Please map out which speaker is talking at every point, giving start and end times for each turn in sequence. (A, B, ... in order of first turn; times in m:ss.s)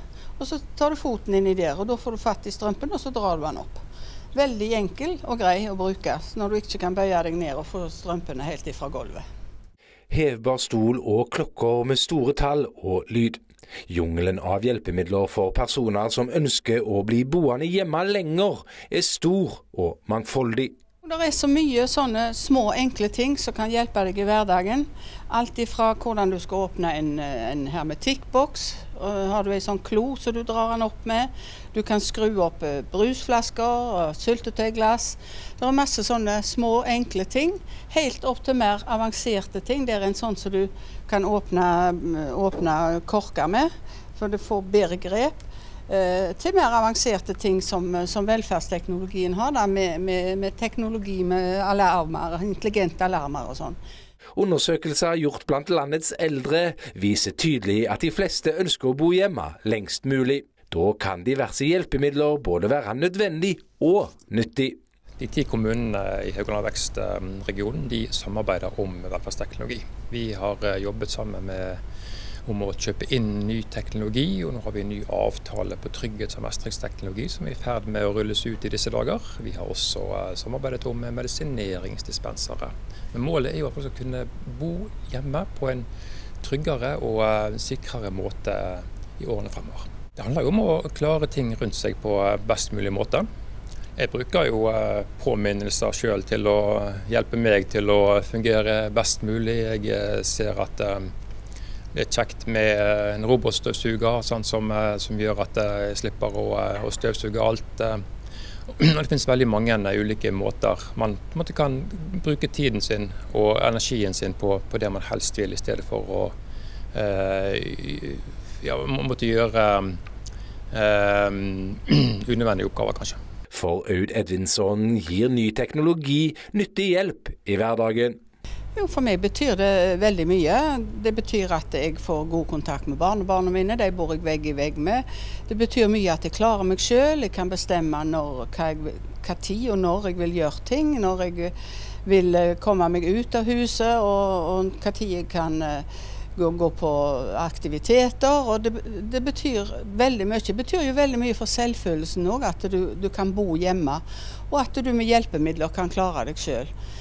0:00.4-0:03.8 A
0:04.3-0:09.2 A
0:10.1-0:20.7 B
0:21.0-0:53.8 A
0:54.4-1:04.8 B
1:05.2-1:11.8 C
1:12.4-1:25.8 C
1:26.4-1:33.2 C
1:34.0-1:41.1 C
1:41.9-1:48.0 C
1:48.8-1:56.3 C
1:56.9-2:00.0 C
2:00.7-2:03.2 C
2:03.5-2:08.2 B
2:08.8-2:21.5 A
2:22.0-2:25.8 A
2:26.4-2:36.7 A